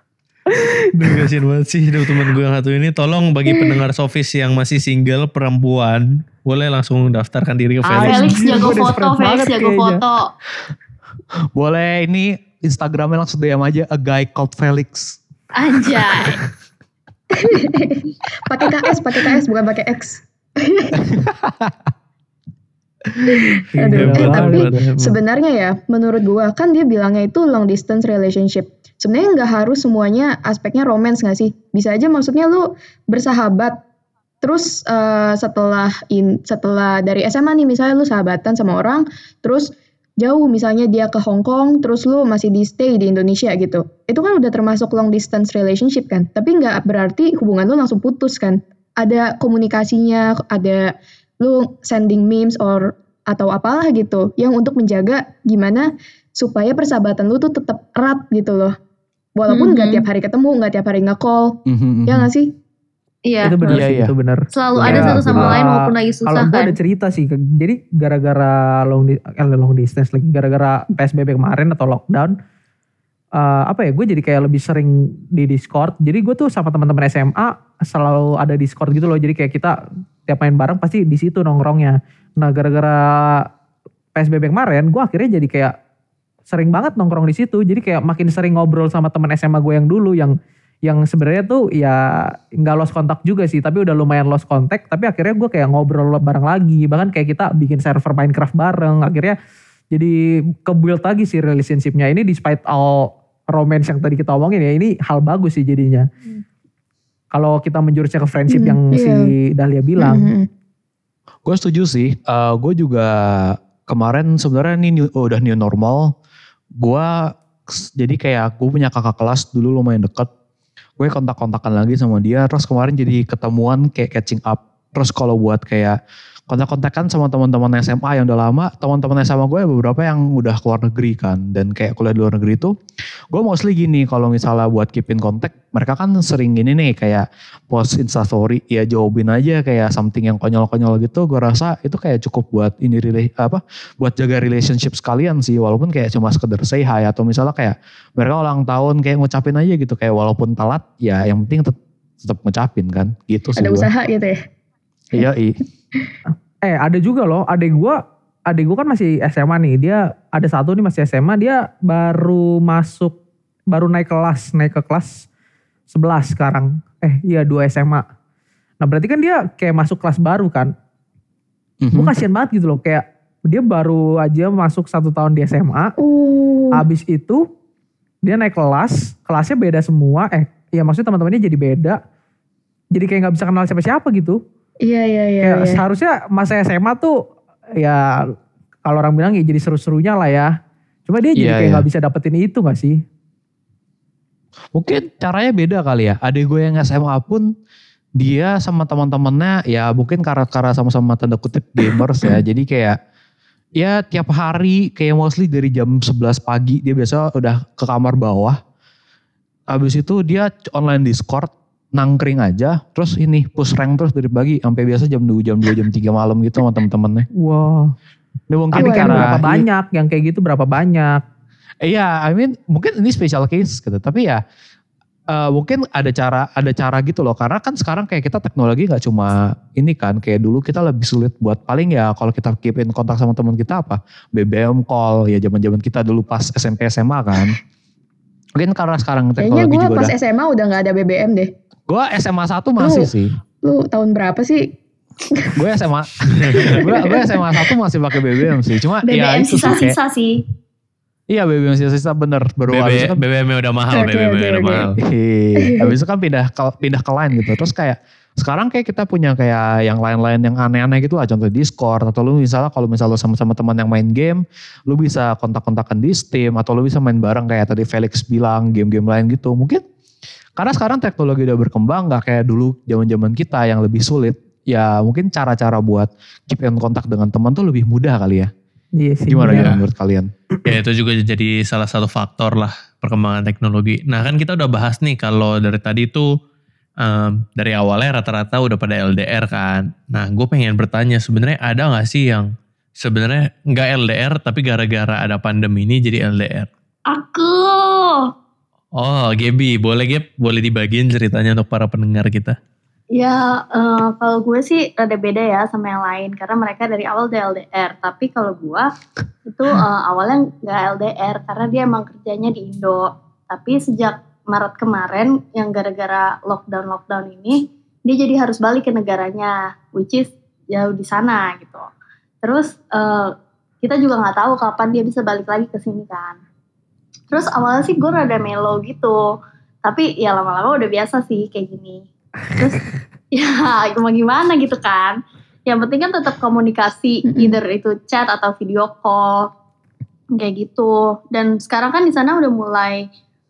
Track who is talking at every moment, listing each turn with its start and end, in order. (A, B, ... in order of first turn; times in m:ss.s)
0:00.6-0:01.2 A
0:01.0-0:08.4 B
0:07.8-0:10.0 A
0:08.0-0:10.3 C
0:11.6-0:15.2 D
0:15.6-0:16.4 C
0:17.4-0:21.0 E
0:21.1-0:21.7 D
0:23.2-0:23.5 D
0:23.5-0:33.8 E
0:23.7-0:24.7 A
0:24.0-0:25.2 B
0:34.4-0:58.8 E
0:59.4-1:02.5 E
0:59.5-1:00.0 F
1:01.7-1:02.3 D
1:03.3-1:03.8 F
1:03.4-1:12.3 A
1:03.7-1:04.1 D
1:04.5-1:06.8 F
1:04.7-1:05.6 D
1:13.4-1:23.4 A
1:24.2-1:25.7 A
1:26.5-1:39.4 A
1:39.9-1:46.1 A
1:47.3-1:50.3 A
1:48.5-1:49.3 E
1:50.0-1:50.5 E
1:51.4-1:56.1 D
1:56.8-2:00.3 D
2:01.0-2:06.0 D
2:06.5-2:12.8 D
2:13.3-2:33.9 D
2:33.6-2:34.4 E
2:35.1-2:35.6 D
2:36.6-2:38.0 A
2:38.5-2:43.2 A
2:43.7-2:45.3 A
2:45.9-2:48.0 A
2:48.8-2:50.7 A
2:51.8-2:52.1 D
2:51.9-2:56.0 A
2:56.0-2:56.8 E
2:56.8-2:57.4 A
2:58.2-3:02.0 A
3:03.0-3:04.4 A
3:04.8-3:05.8 E
3:05.4-3:07.2 A
3:07.8-3:08.0 A
3:08.9-3:10.5 A
3:11.1-3:13.0 A
3:11.4-3:11.8 D
3:14.8-3:17.5 D
3:18.2-3:23.0 D
3:23.8-3:28.6 D
3:29.7-3:37.3 D
3:37.4-3:37.9 A
3:38.5-3:39.6 D
3:38.7-3:41.2 A
3:38.8-3:39.4 E
3:41.8-3:44.4 D
3:45.3-3:57.6 D
3:58.6-4:00.1 D
3:59.4-4:01.5 E
4:01.9-4:03.3 D
4:02.8-4:03.1 E
4:03.6-4:04.7 E
4:05.3-4:05.6 E
4:05.6-4:10.0 D
4:06.5-4:07.7 E
4:09.0-4:10.4 C
4:11.3-4:13.2 D
4:12.7-4:15.0 B
4:13.9-4:14.9 E
4:15.0-4:29.8 D
4:15.7-4:15.9 E
4:30.6-4:38.5 D
4:39.0-4:39.7 A
4:39.3-4:40.3 D
4:39.5-4:39.8 B
4:40.6-4:46.3 B
4:47.0-4:56.7 B
4:57.1-4:58.3 C
4:59.0-5:02.6 B
5:03.1-5:08.9 C
5:09.5-5:21.9 C
5:22.4-5:26.4 C
5:27.3-5:29.3 C
5:29.8-5:39.5 C
5:40.3-5:43.1 C